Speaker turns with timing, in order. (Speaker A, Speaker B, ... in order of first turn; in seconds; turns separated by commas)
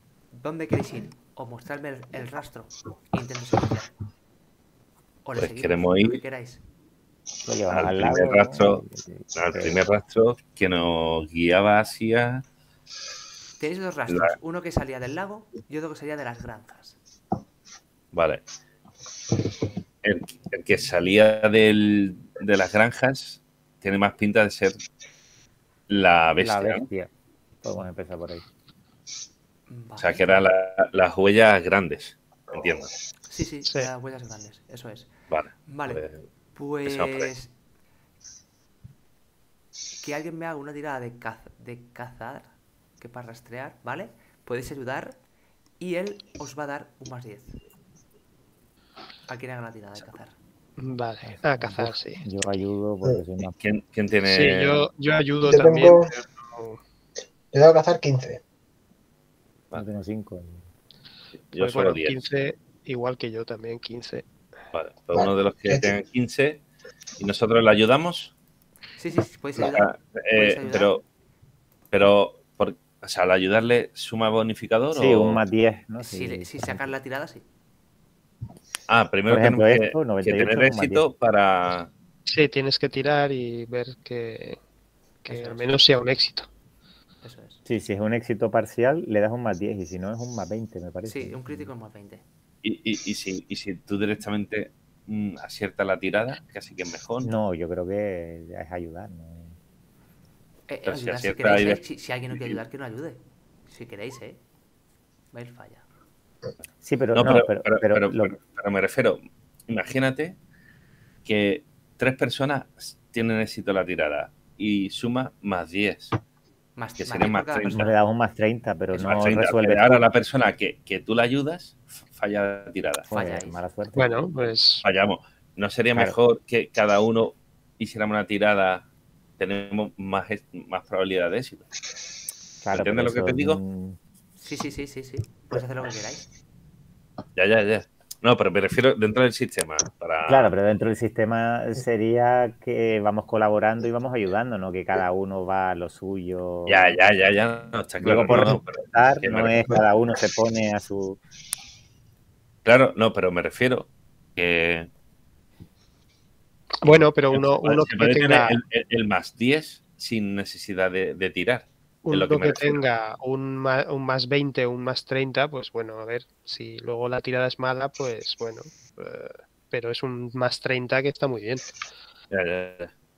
Speaker A: 0.3-3.9, Speaker A: 5.2-6.6, Speaker B: 5.4-6.2, Speaker C: 7.4-9.8, Speaker B: 7.7-8.8, Speaker B: 9.3-12.4, Speaker A: 13.6-17.0, Speaker B: 14.1-14.3, Speaker B: 18.1-18.4, Speaker B: 20.0-24.8, Speaker B: 25.9-26.9, Speaker C: 26.4-27.1, Speaker C: 27.6-28.4, Speaker A: 29.7-30.5, Speaker B: 30.0-32.9, Speaker A: 33.3-35.1, Speaker B: 35.3-36.2, Speaker A: 35.6-36.0, Speaker A: 36.5-37.5, Speaker B: 36.9-37.3, Speaker A: 40.0-45.2, Speaker A: 45.8-47.6, Speaker A: 49.3-50.3, Speaker D: 50.8-52.2, Speaker C: 51.2-53.5, Speaker B: 53.6-54.9, Speaker D: 54.2-56.8, Speaker E: 55.4-56.0, Speaker E: 57.5-58.4, Speaker C: 59.7-60.6, Speaker B: 61.5-62.2, Speaker D: 61.5-64.3, Speaker B: 64.7-66.6, Speaker E: 65.2-65.9, Speaker B: 67.2-68.3, Speaker A: 69.0-71.0, Speaker B: 69.6-71.0, Speaker B: 71.9-75.4, Speaker C: 74.9-76.9, Speaker A: 76.0-77.4, Speaker B: 78.9-81.9, Speaker C: 79.3-81.0, Speaker D: 82.3-84.6, Speaker D: 85.2-86.5, Speaker A: 85.2-85.8, Speaker A: 87.2-87.6, Speaker C: 87.7-91.7, Speaker A: 91.0-92.2, Speaker B: 92.6-97.3, Speaker C: 97.2-99.6, Speaker A: 100.7-104.4, Speaker B: 100.8-101.8, Speaker A: 105.3-105.8, Speaker C: 106.8-108.3, Speaker B: 107.1-110.4, Speaker B: 111.2-116.1, Speaker A: 116.8-117.9, Speaker B: 117.0-117.9, Speaker C: 117.7-120.0, Speaker B: 118.9-123.1, Speaker C: 123.1-124.3, Speaker A: 123.1-123.6, Speaker D: 123.9-124.8, Speaker B: 124.8-128.9, Speaker B: 129.4-131.7, Speaker C: 132.6-134.0, Speaker B: 132.7-133.6, Speaker A: 134.4-136.2, Speaker B: 137.3-140.6, Speaker C: 140.2-147.4, Speaker B: 146.7-149.7, Speaker C: 148.0-151.2, Speaker B: 152.6-154.9, Speaker D: 156.8-158.6, Speaker B: 156.8-162.8, Speaker D: 162.0-171.6, Speaker B: 172.3-172.9